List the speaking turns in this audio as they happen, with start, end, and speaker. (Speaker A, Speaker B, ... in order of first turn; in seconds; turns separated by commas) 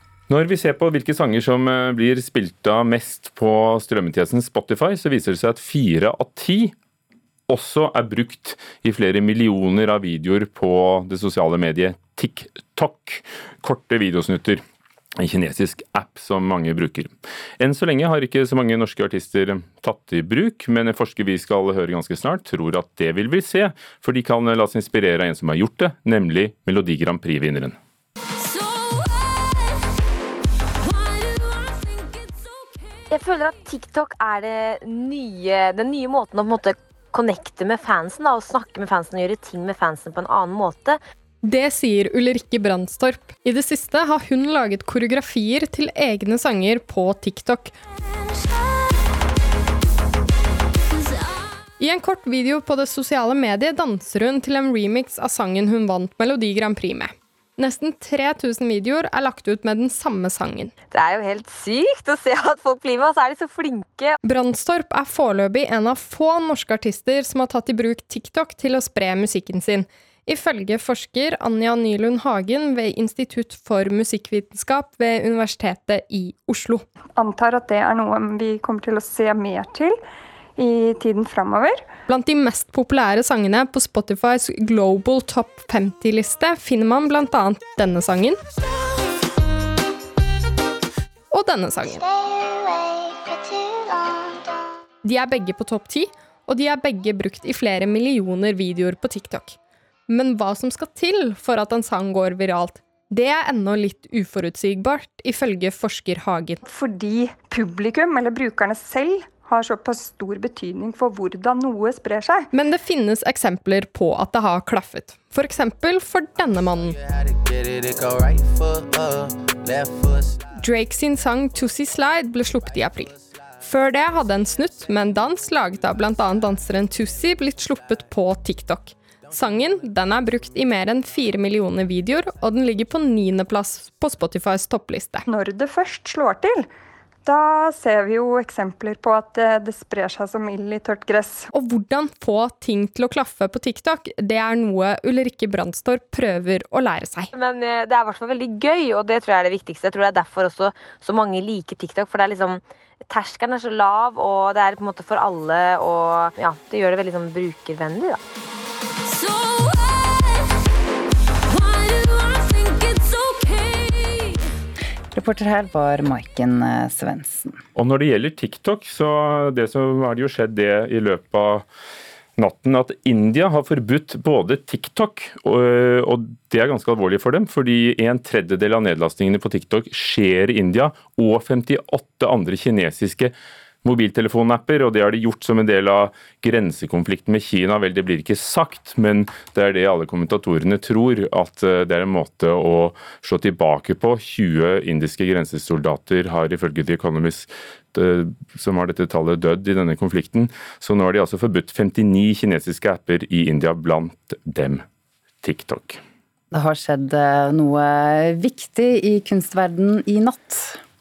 Speaker A: 0.3-6.7, Speaker A: 7.5-14.6, Speaker A: 15.2-27.8, Speaker B: 33.1-41.0, Speaker C: 41.4-47.7, Speaker C: 51.8-60.7, Speaker B: 60.9-64.2, Speaker C: 64.2-76.8, Speaker D: 77.1-80.0, Speaker D: 80.6-81.8, Speaker C: 82.1-88.4, Speaker C: 91.3-92.1, Speaker C: 95.0-99.5, Speaker C: 100.1-106.6, Speaker D: 106.7-112.5, Speaker C: 112.5-117.0, Speaker C: 120.6-135.3, Speaker D: 135.3-136.7, Speaker D: 137.2-141.5, Speaker C: 141.5-147.3, Speaker B: 147.3-158.2, Speaker E: 165.1-167.6, Speaker A: 167.7-171.6, Speaker A: 172.4-204.8, Speaker A: 205.4-206.0, Speaker E: 206.5-210.8